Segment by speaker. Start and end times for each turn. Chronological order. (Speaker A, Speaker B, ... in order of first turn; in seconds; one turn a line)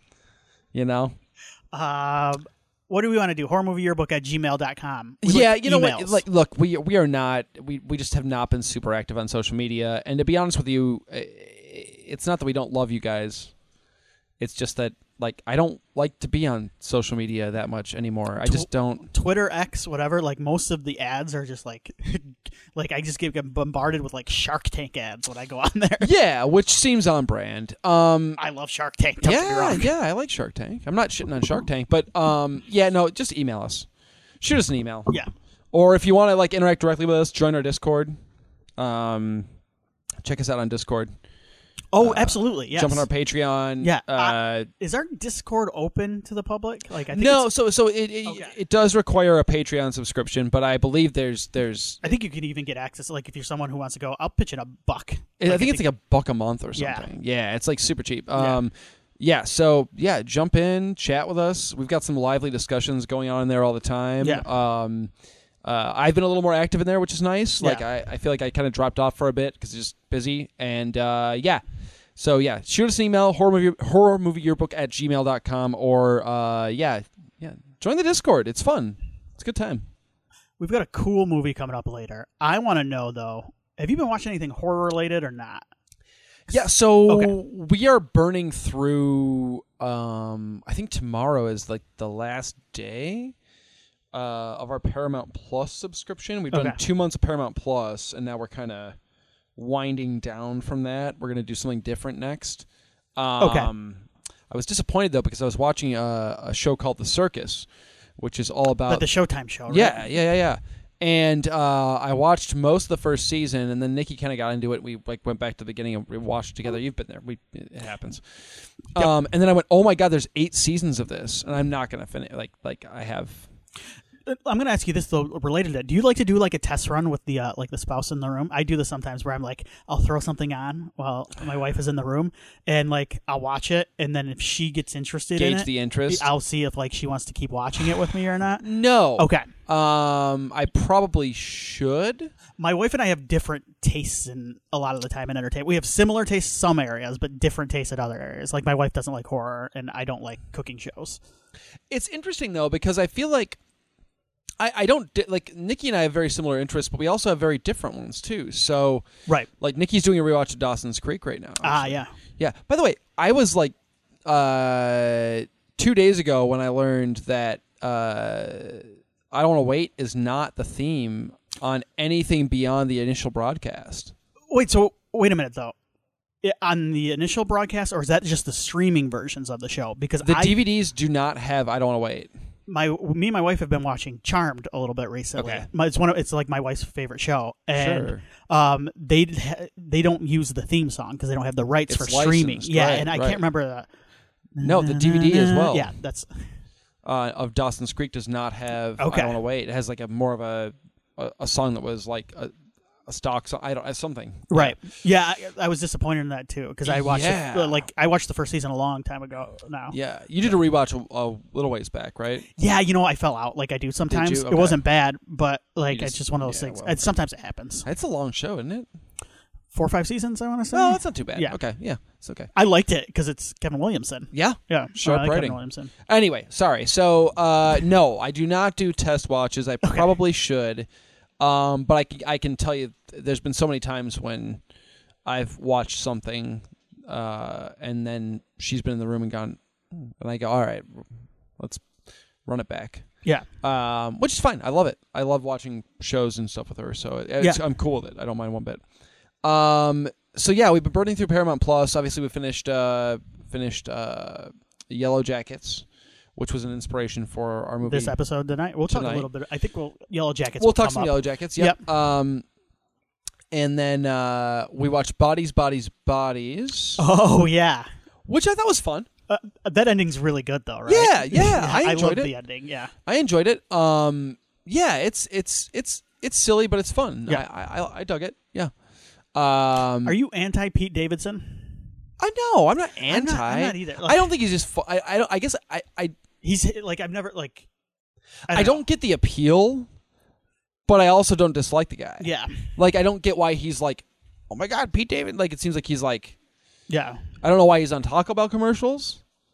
Speaker A: 0.7-1.1
Speaker B: 1.7-6.2
Speaker A: 5.2-13.5
Speaker A: 14.4-19.1
Speaker B: 18.4-26.1
Speaker A: 26.0-28.4
Speaker B: 28.4-29.9
Speaker A: 29.2-33.9
Speaker A: 34.4-35.1
Speaker A: 35.7-38.2
Speaker A: 38.8-39.5
Speaker A: 40.2-41.1
Speaker B: 41.9-43.1
Speaker A: 42.0-44.7
Speaker B: 43.8-47.5
Speaker A: 47.1-52.0
Speaker B: 48.2-48.5
Speaker B: 52.0-55.9
Speaker A: 55.4-65.1
Speaker B: 56.8-57.1
Speaker B: 58.3-58.6
Speaker B: 64.2-64.5
Speaker A: 65.6-71.6
Speaker A: 72.2-79.9
Speaker B: 80.6-85.7
Speaker A: 86.5-93.3
Speaker A: 94.1-99.0
Speaker B: 96.5-96.8
Speaker A: 99.5-102.7
Speaker A: 103.2-107.7
Speaker B: 103.4-103.7
Speaker A: 108.2-109.0
Speaker B: 108.9-110.1
Speaker A: 109.7-118.2
Speaker A: 118.9-123.5
Speaker B: 124.3-139.5
Speaker A: 135.4-136.3
Speaker A: 138.6-142.3
Speaker B: 142.6-151.2
Speaker A: 151.9-153.6
Speaker A: 154.6-159.1
Speaker A: 159.6-163.7
Speaker B: 161.6-162.1
Speaker A: 164.2-174.1
Speaker B: 174.5-175.7
Speaker B: 176.4-180.6
Speaker A: 180.2-182.3
Speaker B: 182.7-193.9
Speaker A: 185.3-185.7
Speaker A: 187.7-188.2
Speaker A: 191.9-193.4
Speaker B: 194.6-196.3
Speaker A: 194.6-195.9
Speaker A: 197.0-202.5
Speaker B: 199.0-199.4
Speaker A: 203.1-204.8
Speaker B: 204.5-209.9
Speaker A: 206.8-207.8
Speaker A: 209.9-212.5
Speaker B: 212.6-217.8
Speaker A: 214.1-214.8
Speaker A: 215.9-217.1
Speaker A: 217.8-218.9
Speaker B: 219.7-221.6
Speaker A: 220.7-222.5
Speaker B: 222.5-225.9
Speaker A: 224.3-230.9
Speaker B: 229.8-230.1
Speaker A: 231.4-234.6
Speaker A: 235.2-241.9
Speaker A: 242.4-243.1
Speaker A: 243.6-248.8
Speaker A: 249.4-258.1
Speaker B: 257.8-261.8
Speaker A: 258.9-259.3
Speaker A: 260.6-262.4
Speaker A: 263.5-267.0
Speaker B: 267.0-267.9
Speaker A: 268.3-269.1
Speaker B: 269.3-272.9
Speaker A: 270.9-272.3
Speaker A: 273.1-278.7
Speaker A: 279.3-280.1
Speaker B: 280.0-281.6
Speaker A: 282.2-286.1
Speaker B: 283.1-284.2
Speaker B: 286.4-287.6
Speaker B: 288.5-288.8
Speaker A: 288.5-289.9
Speaker A: 290.9-296.4
Speaker B: 292.2-292.6
Speaker B: 296.9-297.2
Speaker A: 297.4-299.2